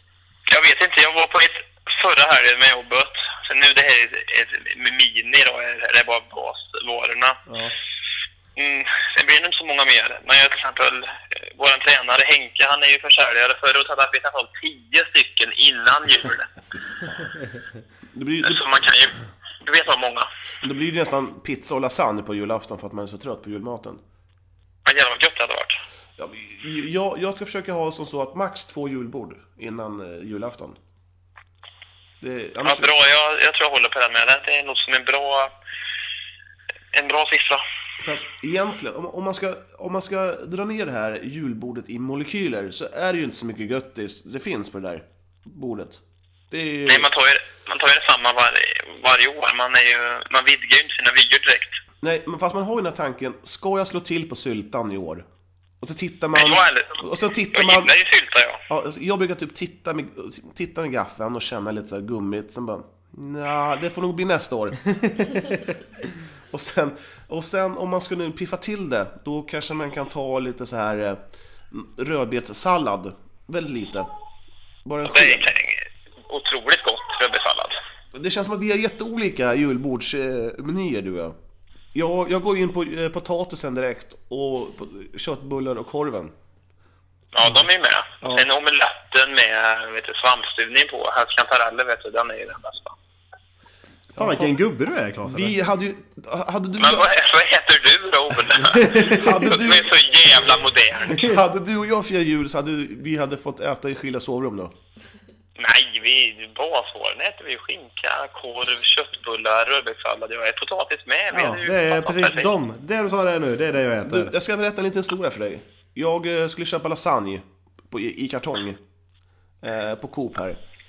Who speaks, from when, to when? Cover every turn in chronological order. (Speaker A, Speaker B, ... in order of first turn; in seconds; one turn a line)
Speaker A: 0.5-7.4
Speaker B: 7.5-7.8
Speaker A: 8.6-16.5
Speaker B: 18.1-18.7
Speaker A: 18.4-20.3
Speaker B: 20.6-24.0
Speaker A: 24.9-25.8
Speaker B: 26.2-30.8
Speaker B: 32.2-33.0
Speaker A: 32.6-35.5
Speaker A: 36.9-37.6
Speaker B: 38.0-47.1
Speaker A: 46.9-51.8
Speaker B: 52.0-55.2
Speaker B: 55.8-57.9
Speaker A: 56.3-58.6
Speaker B: 58.7-64.9
Speaker B: 66.5-74.1
Speaker B: 74.8-75.5
Speaker A: 75.0-77.8
Speaker B: 78.1-81.4
Speaker B: 81.9-86.3
Speaker A: 87.3-93.0
Speaker B: 94.2-94.5
Speaker C: 94.2-95.6
Speaker B: 95.2-97.1
Speaker A: 96.8-101.3
Speaker C: 98.7-99.3
Speaker B: 98.9-100.0
Speaker B: 101.0-104.7
Speaker A: 105.6-112.5
Speaker C: 111.3-114.3
Speaker B: 114.0-118.8
Speaker B: 119.6-120.6